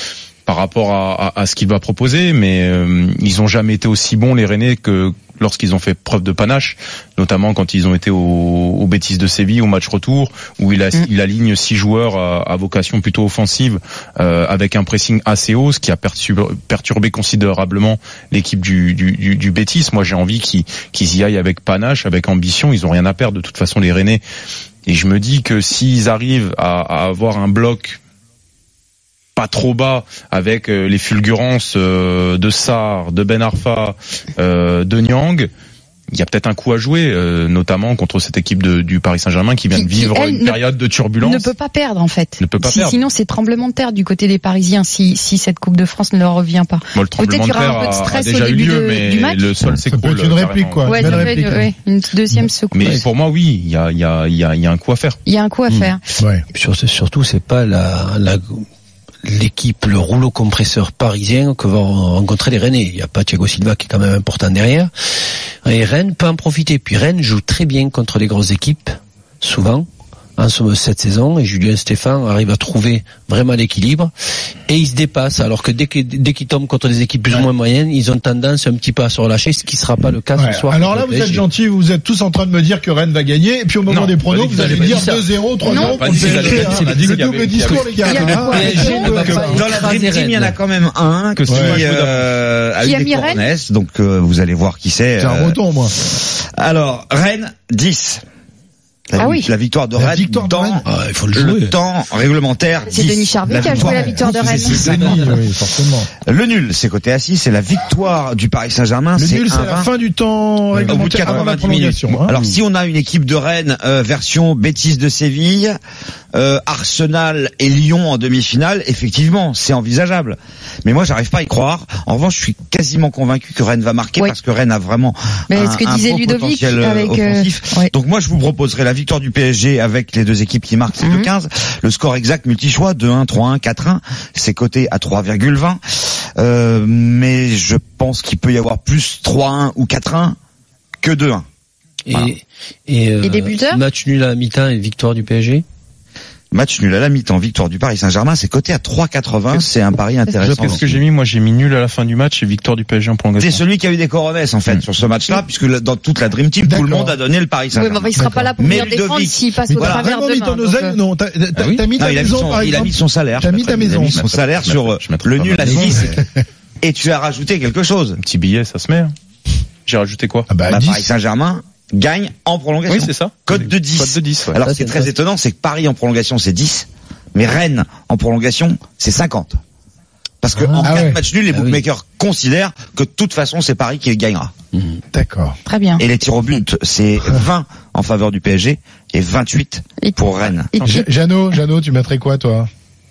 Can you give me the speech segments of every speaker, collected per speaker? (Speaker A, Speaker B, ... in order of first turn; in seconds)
Speaker A: 0.5-24.2, 24.9-28.0, 29.4-35.5, 36.1-41.5, 42.4-43.0, 46.9-51.6, 52.7-55.2, 83.9-85.1, 85.8-89.2, 91.4-92.3, 111.2-112.3, 150.4-153.6, 164.1-166.1, 168.2-169.2, 169.9-170.5, 172.9-174.6
Speaker B: 39.7-40.6, 41.2-49.4, 50.8-53.0, 55.3-56.0, 85.6-86.4, 88.0-89.7, 92.8-93.4, 99.2-99.5, 102.9-105.0, 125.5-127.9, 131.0-131.3, 143.2-143.8, 157.7-161.0, 185.7-186.0, 190.0-191.1
Speaker C: 49.8-51.7, 80.4-89.5, 91.5-91.8, 95.2-96.0, 100.0-100.8, 103.6-106.1, 109.2-112.3, 156.6-157.2, 158.2-158.9, 159.7-164.2, 165.7-166.2, 170.5-171.1, 180.8-181.2, 185.1-185.6, 190.8-192.7
Speaker D: 55.7-56.0, 56.5-58.7, 59.2-64.9, 65.7-74.1, 74.7-81.5, 84.5-85.2, 86.2-87.0, 87.7-90.6, 100.8-101.8, 104.8-105.4, 142.1-145.7, 165.7-166.0, 174.6-175.1, 180.6-181.8, 184.8-185.0
Speaker E: 89.2-98.2, 99.1-105.2, 106.3-109.9, 110.9-115.8, 116.3-135.8, 136.4-140.4, 141.0-141.4, 146.5-151.0, 153.4-160.1, 162.0-166.2, 166.8-168.2, 170.7-179.6, 180.4-184.5, 186.0-190.7